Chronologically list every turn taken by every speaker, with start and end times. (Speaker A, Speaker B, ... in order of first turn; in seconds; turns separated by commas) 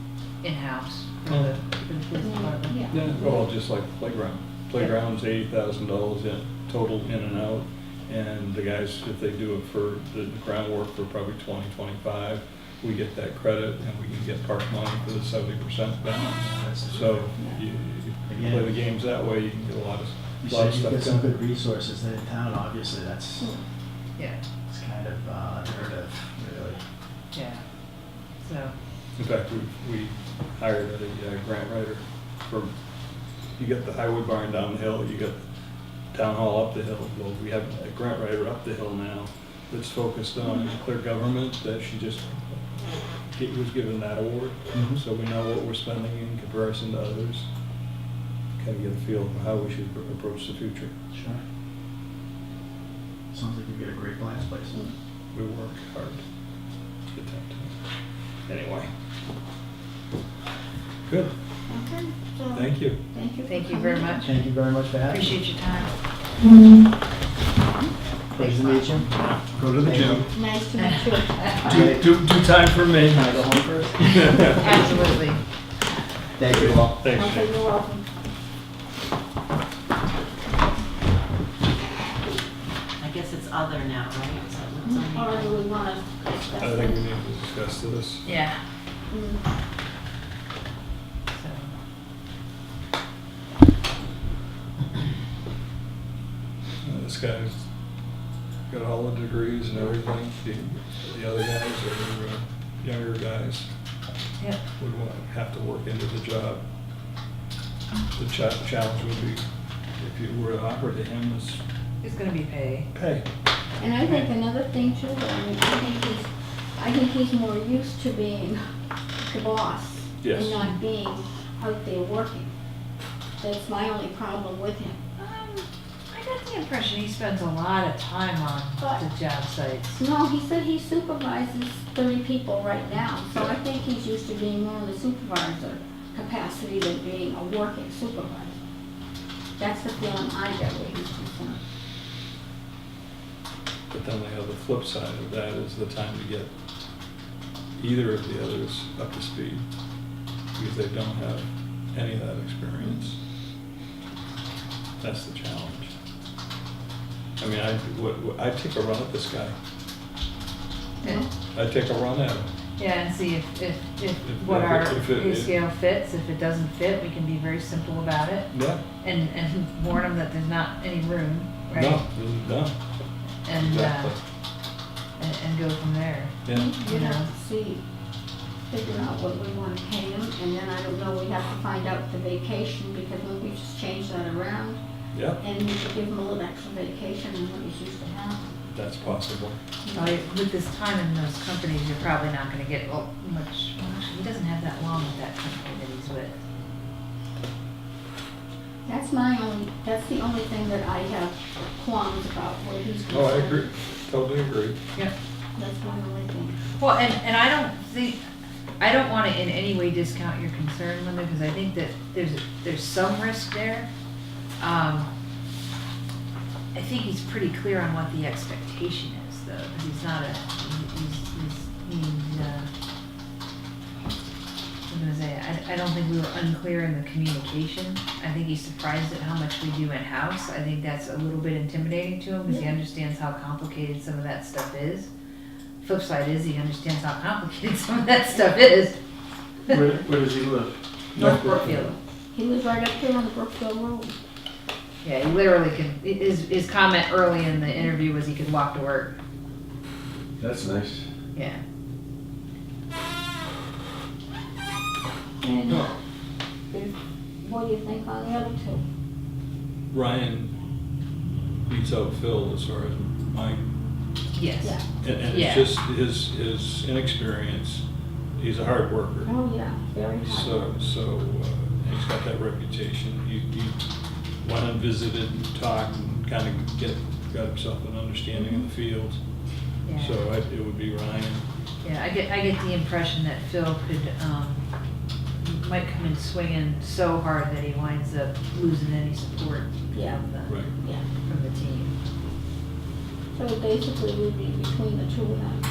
Speaker A: 0.4-2.9, Speaker B: 1.3-1.5, Speaker C: 2.2-3.5, Speaker B: 2.9-21.4, Speaker D: 16.2-17.3, Speaker D: 18.3-18.7, Speaker D: 20.4-23.5, Speaker D: 24.7-26.8, Speaker A: 27.3-27.6, Speaker A: 28.4-28.7, Speaker B: 29.2-32.7, Speaker B: 33.6-35.4, Speaker B: 36.1-47.5, Speaker D: 44.7-45.0, Speaker B: 48.6-50.9, Speaker D: 51.1-51.4, Speaker D: 53.3-54.9, Speaker B: 55.3-56.2, Speaker B: 57.1-57.8, Speaker B: 58.5-58.9, Speaker B: 61.1-61.3, Speaker C: 61.7-64.3, Speaker B: 62.5-63.0, Speaker A: 63.5-64.4, Speaker D: 64.2-65.4, Speaker A: 65.1-65.9, Speaker D: 68.3-70.3, Speaker A: 68.4-68.9, Speaker B: 69.0-70.3, Speaker C: 70.3-71.9, Speaker B: 71.6-74.8, Speaker D: 71.7-72.2, Speaker D: 73.1-74.7, Speaker A: 74.5-75.4, Speaker D: 76.4-77.0, Speaker B: 76.4-77.5, Speaker C: 77.1-78.0, Speaker E: 83.0-85.7, Speaker C: 84.9-87.0, Speaker B: 86.6-88.3, Speaker A: 88.2-88.6, Speaker C: 89.1-89.4, Speaker A: 91.3-91.7, Speaker B: 96.8-97.6, Speaker B: 98.7-103.7, Speaker B: 104.8-106.6, Speaker B: 108.1-109.4, Speaker B: 110.0-111.6, Speaker A: 112.0-112.9, Speaker B: 112.9-113.2, Speaker C: 113.8-118.6, Speaker C: 119.2-122.5, Speaker B: 120.2-120.6, Speaker C: 123.4-125.0, Speaker A: 125.2-130.0, Speaker C: 129.9-138.6, Speaker C: 139.6-141.6, Speaker B: 143.9-146.5, Speaker B: 147.8-149.6, Speaker B: 150.5-153.2, Speaker B: 155.0-155.9, Speaker B: 157.4-159.5, Speaker C: 161.0-161.3, Speaker B: 161.5-162.5, Speaker A: 162.8-172.0, Speaker B: 164.2-165.5, Speaker B: 168.5-168.8, Speaker B: 171.7-172.7, Speaker A: 173.4-174.1, Speaker B: 173.5-174.2, Speaker A: 175.2-177.3, Speaker B: 176.4-176.7, Speaker C: 176.5-177.8, Speaker C: 178.7-184.8, Speaker B: 185.1-185.4, Speaker C: 185.4-188.6, Speaker B: 188.7-189.6, Speaker C: 189.8-190.1, Speaker A: 189.9-196.4, Speaker C: 198.8-203.7, Speaker B: 203.1-204.8, Speaker C: 205.5-206.6, Speaker A: 206.8-208.2, Speaker A: 208.8-213.9, Speaker A: 214.6-215.1, Speaker A: 216.7-222.7, Speaker A: 224.9-235.1, Speaker A: 235.8-238.9, Speaker D: 239.7-241.3, Speaker A: 241.2-241.9, Speaker C: 241.4-244.1, Speaker A: 245.0-249.2, Speaker D: 250.4-251.1, Speaker A: 251.3-251.6, Speaker C: 255.4-255.9, Speaker C: 256.7-258.8, Speaker B: 259.9-260.5, Speaker B: 261.7-263.6, Speaker A: 264.3-265.7, Speaker B: 265.0-267.8, Speaker B: 268.4-269.3, Speaker C: 269.2-270.7, Speaker B: 270.2-273.8, Speaker B: 274.4-279.2, Speaker C: 278.3-278.7, Speaker A: 279.8-280.3, Speaker B: 279.9-281.4, Speaker A: 281.8-284.6, Speaker A: 285.4-290.5, Speaker C: 289.9-290.2, Speaker B: 290.5-290.7, Speaker C: 290.8-291.0, Speaker A: 291.2-291.9, Speaker C: 293.3-295.6